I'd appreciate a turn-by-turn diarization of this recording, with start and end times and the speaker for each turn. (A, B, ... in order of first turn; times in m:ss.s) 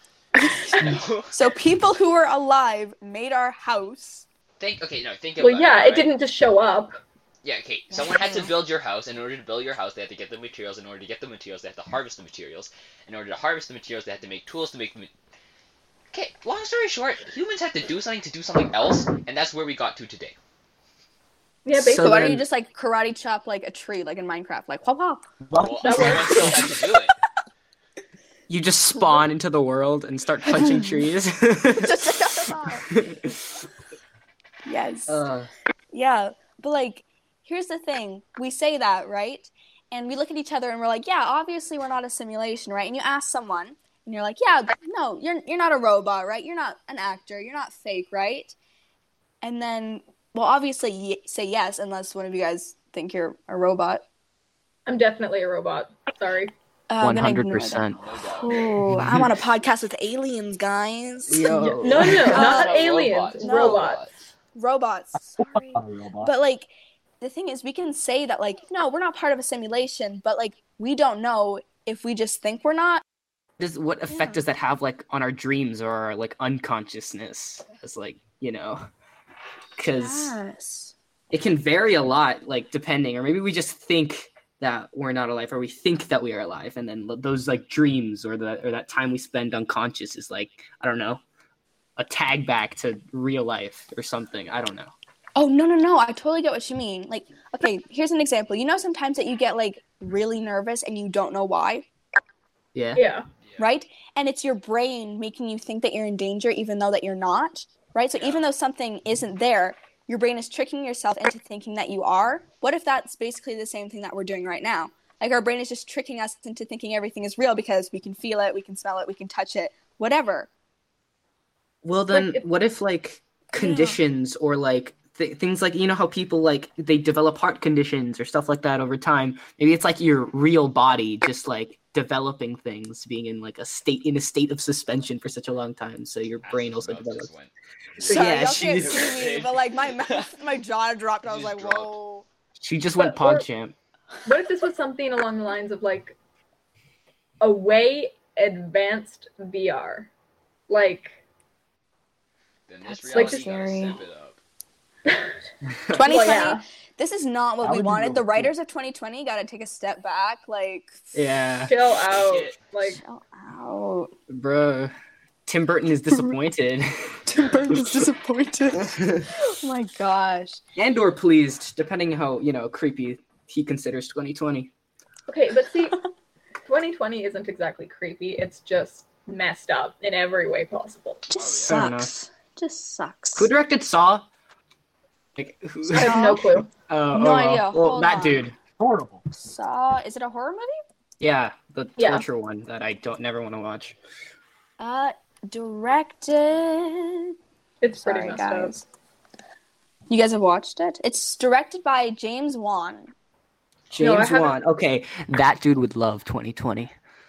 0:00.4-0:04.2 A
0:00.7-0:01.3 B
0:04.6-0:06.1 B
0:05.4-0:07.0 C
0:07.4-0:15.1 B
0:07.9-0:08.5 A
0:16.1-0:20.4 B
0:21.6-0:22.4 C
0:21.7-0:22.4 D
0:22.0-0:25.2 A
0:25.5-0:25.8 E
0:25.6-0:27.1 B
0:25.8-0:26.8 C
0:26.0-0:26.7 A
0:28.5-0:32.0 D
0:30.6-0:30.9 A
0:31.8-0:32.9 A
0:32.9-0:33.4 D
0:34.7-0:35.2 A
0:35.1-0:35.5 D
0:35.9-0:48.6 A
0:49.4-0:54.0 A
0:54.9-0:56.5 C
0:56.9-1:02.8 A
0:57.0-0:58.0 D
0:57.9-0:58.7 B
0:58.9-0:59.2 D
1:01.3-1:02.6 D
1:01.8-1:04.0 C
1:02.2-1:04.1 B
1:03.4-1:03.9 A
1:04.6-1:06.7 A
1:05.4-1:06.3 E
1:07.2-1:13.0 A
1:13.6-1:18.8 D
1:14.1-1:14.4 A
1:19.8-1:20.3 D
1:19.9-1:20.9 A
1:21.3-1:31.2 D
1:32.0-1:34.9 D
1:35.4-1:41.9 A
1:42.8-1:43.0 D
1:42.9-1:43.2 C
1:43.6-2:00.5 A
2:01.8-2:17.3 D
2:02.1-2:02.4 C
2:03.5-2:04.0 A
2:16.4-2:20.3 B
2:18.0-2:19.3 D
2:18.1-2:22.2 A
2:21.2-2:21.9 B
2:22.6-2:23.8 D
2:23.0-2:23.4 C
2:24.2-2:26.2 C
2:27.4-2:30.1 C
2:30.7-2:31.2 C
2:32.7-2:34.4 B
2:32.8-2:34.0 A
2:33.1-2:33.5 C
2:35.7-2:36.1 D
2:35.9-2:40.9 A
2:36.0-2:36.6 C
2:37.6-2:38.5 E
2:41.1-2:41.7 D
2:41.7-2:43.0 C
2:42.1-2:42.6 B
2:42.8-2:44.1 A
2:44.3-2:44.9 D
2:45.4-2:46.9 D
2:46.1-2:46.4 A
2:47.3-2:50.6 A
2:48.8-2:49.3 D
2:50.8-2:54.7 D
2:55.3-2:56.0 C
2:56.6-3:01.2 C
3:01.3-3:03.5 A
3:01.4-3:01.8 B
3:01.6-3:02.1 D
3:03.4-3:04.2 D
3:05.4-3:06.3 D
3:05.9-3:06.7 C
3:06.0-3:06.4 A
3:06.9-3:08.6 D
3:07.1-3:08.5 A
3:08.8-3:09.2 E
3:09.4-3:10.8 A
3:11.2-3:14.0 D
3:12.0-3:12.3 C
3:14.8-3:17.3 A
3:17.8-3:18.8 C
3:18.0-3:18.8 A
3:20.1-3:23.1 A
3:23.9-3:26.9 D
3:24.0-3:24.6 C